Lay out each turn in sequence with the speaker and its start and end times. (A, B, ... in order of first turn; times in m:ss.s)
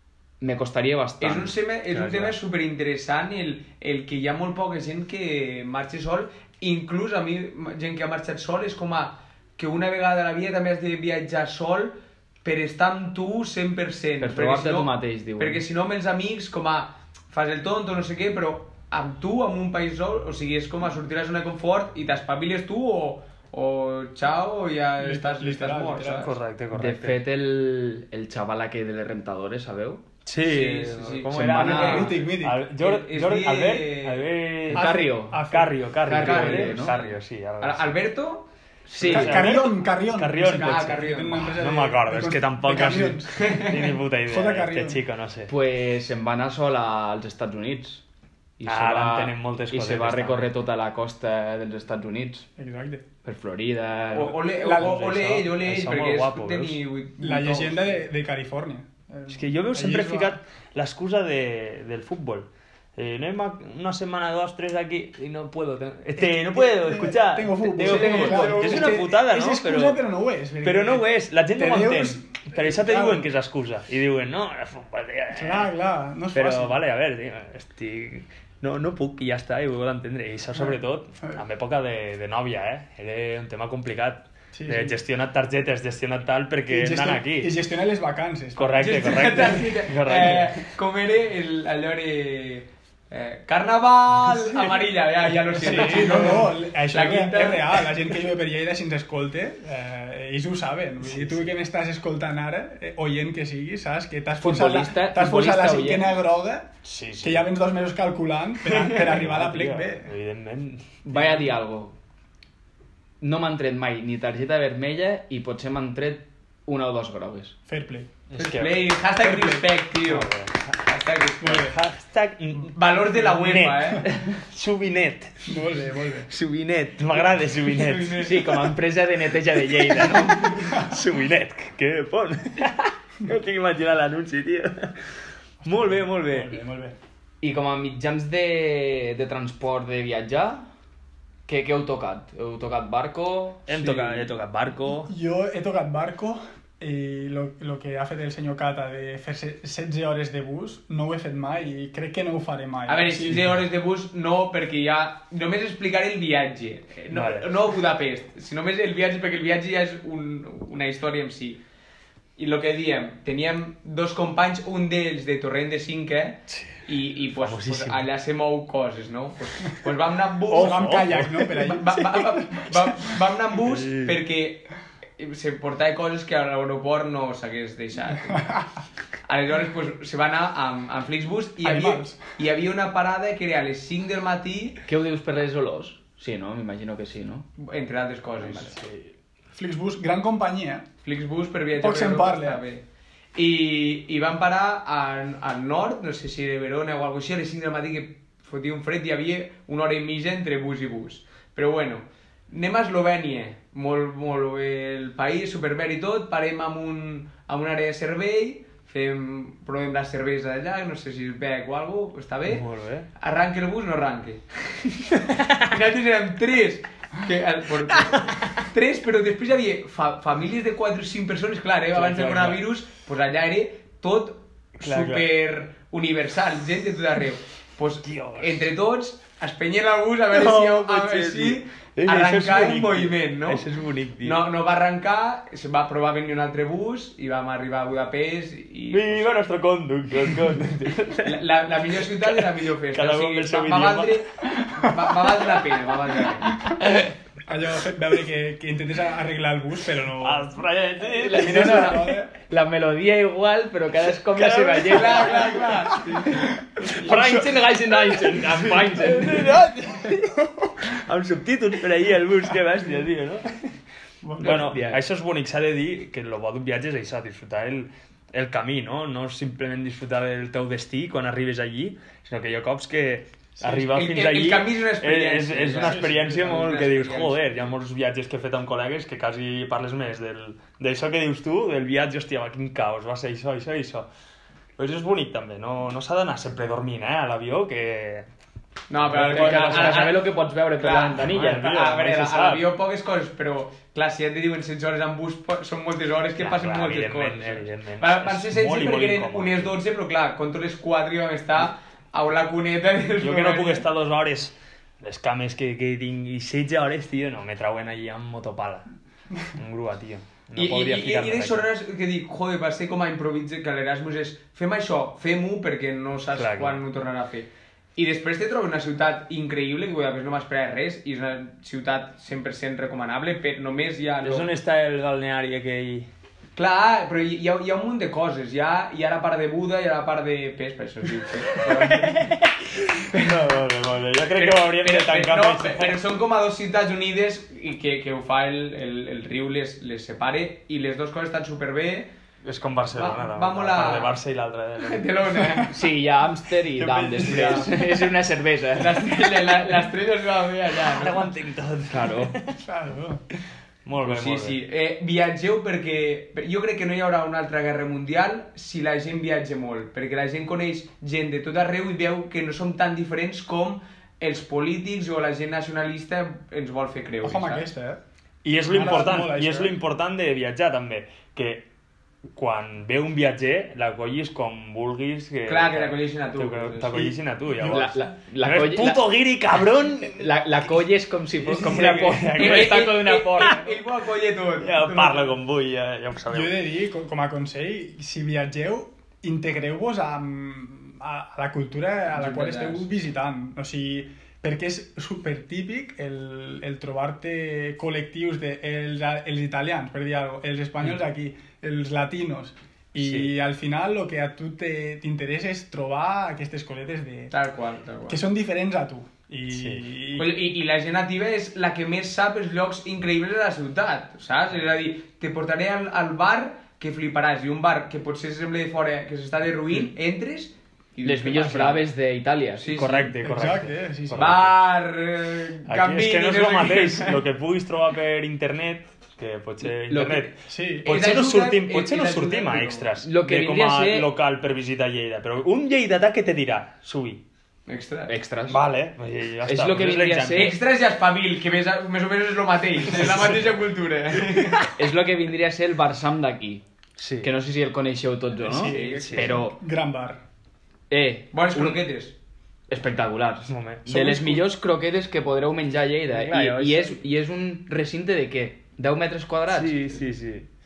0:00.4-0:01.6 A
0:01.2-0:26.3 B
0:01.9-0:02.4 C
0:14.2-0:15.6 A
0:25.0-0:26.3 D
0:26.2-0:27.2 C
0:26.7-0:30.0 A
0:30.2-0:38.0 C
0:30.4-0:32.2 B
0:31.3-0:32.1 A
0:31.4-0:32.6 D
0:32.8-0:34.3 B
0:34.7-0:35.8 D
0:34.7-0:37.0 A
0:36.2-0:38.5 B
0:38.9-0:39.5 A
0:39.0-0:45.5 C
0:39.0-0:43.5 D
0:40.6-0:41.5 B
0:43.4-0:43.9 B
0:44.3-0:45.0 D
0:45.5-0:48.0 A
0:48.6-0:52.5 A
0:48.7-0:50.5 C
0:52.6-0:53.0 D
0:53.2-0:54.4 A
0:54.1-0:58.0 B
0:54.2-0:56.8 C
0:54.6-0:55.0 D
0:57.2-1:00.4 D
0:59.3-1:10.0 C
1:06.2-1:13.3 D
1:07.8-1:09.1 B
1:10.6-1:15.7 C
1:15.3-1:16.8 D
1:16.3-1:27.6 C
1:20.6-1:21.4 D
1:24.5-1:25.0 D
1:26.7-1:29.6 D
1:28.6-1:30.6 C
1:28.8-1:38.0 B
1:34.3-1:34.8 D
1:35.6-1:46.7 D
1:44.4-1:46.2 A
1:46.8-1:47.4 C
1:47.2-1:50.1 D
1:48.8-1:51.4 C
1:51.0-1:52.0 A
1:53.2-1:57.6 A
1:57.7-1:58.1 D
1:58.3-1:59.0 C
1:58.4-2:01.7 B
1:59.2-1:59.7 D
2:00.0-2:00.7 C
2:01.4-2:01.8 D
2:01.5-2:05.6 C
2:02.7-2:04.1 B
2:05.5-2:06.3 D
2:06.3-2:08.3 C
2:07.7-2:08.7 B
2:08.2-2:10.8 A
2:10.0-2:15.0 C
2:15.6-2:17.0 D
2:15.7-2:16.6 C
2:17.4-2:20.7 A
2:21.5-2:24.3 A
2:23.7-2:25.1 C
2:25.1-2:33.4 D
2:32.9-2:41.6 B
2:37.1-2:37.5 C
2:42.4-2:58.6 B
2:46.5-2:46.8 C
2:47.4-2:48.0 C
2:50.5-2:52.7 D
2:50.5-2:51.6 C
2:53.6-2:54.2 C
2:59.3-3:04.8 B
3:01.6-3:02.2 D
3:04.9-3:07.5 A
3:07.6-3:08.8 B
3:08.5-3:09.1 C
3:09.5-3:10.9 D
3:11.0-3:12.8 B
3:11.8-3:12.6 D
3:13.4-3:32.6 B
3:32.5-3:33.1 C
3:33.2-3:34.4 B
3:35.3-3:53.6 B
3:38.0-3:38.6 C
3:41.9-3:42.6 C
3:44.8-3:45.3 C
3:48.0-3:48.7 C
3:50.3-3:54.4 C
3:54.2-3:59.4 B
3:58.9-4:01.4 C
4:01.2-4:06.6 B
4:02.2-4:04.2 C
4:07.5-4:10.5 D
4:10.2-4:11.9 C
4:11.0-4:15.7 A
4:11.2-4:12.3 D
4:14.3-4:16.0 C
4:14.8-4:16.4 B
4:16.8-4:19.5 A
4:16.9-4:23.7 C
4:24.2-4:24.7 D
4:24.4-4:44.1 C
4:24.4-4:25.0 A
4:33.7-4:37.4 B
4:35.7-4:36.3 D
4:44.8-4:48.3 C
4:48.9-4:50.2 B
4:49.0-4:50.1 C
4:49.1-4:51.7 A
4:50.8-5:03.9 B
4:51.1-4:52.7 C
4:56.4-4:59.8 C
5:03.2-5:11.7 C
5:10.6-5:24.5 B
5:16.4-5:16.8 C
5:24.2-5:26.1 C
5:26.6-5:32.2 B
5:31.5-5:36.0 C
5:34.3-5:42.1 B
5:42.4-5:45.2 C
5:42.9-5:44.2 B
5:44.8-5:45.9 B
5:45.7-5:49.5 A
5:46.8-5:47.9 B
5:47.2-5:47.7 D
5:48.8-5:51.3 B
5:50.8-5:52.6 C
5:51.9-5:52.3 A
5:52.6-5:53.2 D
5:53.8-5:54.6 C
5:54.0-6:07.7 B
6:07.2-6:08.0 D
6:08.4-6:11.7 C
6:08.6-6:09.8 D
6:12.3-6:20.4 C
6:15.5-6:17.2 B
6:17.6-6:17.9 D
6:17.6-6:19.2 A
6:19.9-6:23.6 A
6:21.4-6:23.0 C
6:21.7-6:25.2 B
6:24.6-6:26.5 C
6:25.0-6:25.2 D
6:26.3-6:47.3 D
6:32.1-6:32.9 B
6:43.0-6:43.3 C
6:47.3-6:48.2 B
6:48.1-6:50.5 D
6:49.6-6:49.8 C
6:50.2-7:01.9 B
7:01.0-7:03.0 A
7:02.6-7:03.2 B
7:02.7-7:04.6 C
7:03.2-7:04.3 D
7:04.2-7:07.2 B
7:05.7-7:17.2 C
7:09.6-7:10.3 A
7:10.5-7:11.0 D
7:10.9-7:12.9 B
7:13.0-7:14.1 A
7:17.7-7:18.1 B
7:18.1-7:18.6 A
7:18.5-7:20.6 C
7:19.4-7:20.6 A
7:20.3-7:24.7 B
7:22.9-7:23.4 A
7:24.8-7:26.6 A
7:27.0-7:27.3 C
7:27.2-7:29.6 A
7:28.4-7:30.2 D
7:28.5-7:29.1 B
7:28.9-7:29.4 C
7:30.9-7:31.8 A
7:31.3-7:32.2 B
7:32.7-7:40.0 A
7:33.5-7:34.5 C
7:36.1-7:37.0 C
7:39.5-7:40.5 C